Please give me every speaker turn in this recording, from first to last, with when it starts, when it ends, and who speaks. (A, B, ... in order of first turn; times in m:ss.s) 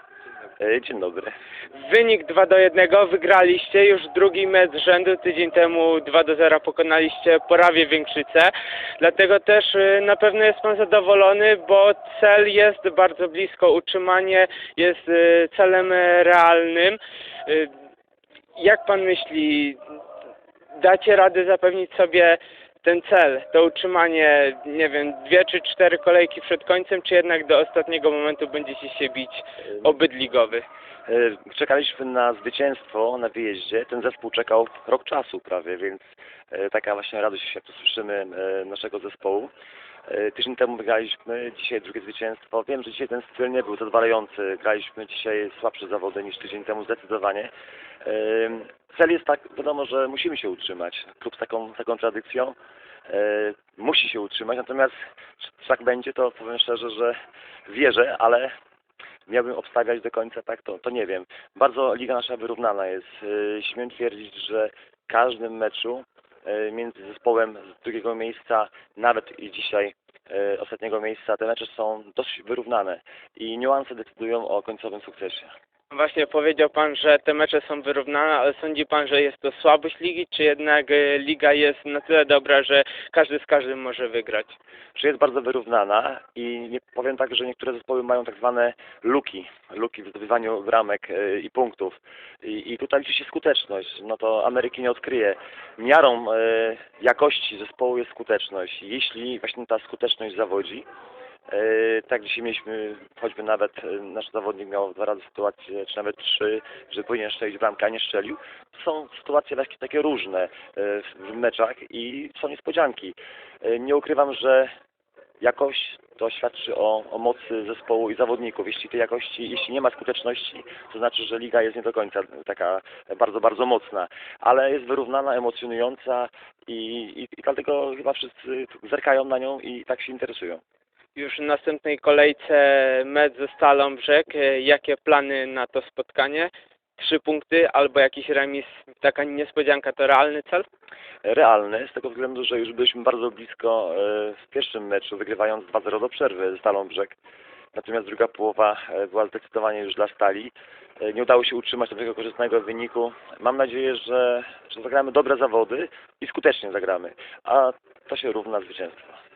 0:00.6-0:01.3 A
0:01.7-0:17.7 B
0:18.6-0:19.8 B
0:20.8-0:30.6 B
0:31.1-0:39.5 A
0:40.1-0:47.5 A
0:48.0-0:52.6 A
0:53.1-0:57.1 A
0:57.7-0:58.5 A
0:59.3-1:15.5 A
1:15.9-1:24.6 B
1:25.0-1:40.8 A
1:41.5-1:54.7 A
1:55.4-2:10.6 A
2:11.2-2:20.6 B
2:21.2-2:27.2 A
2:27.7-2:39.2 A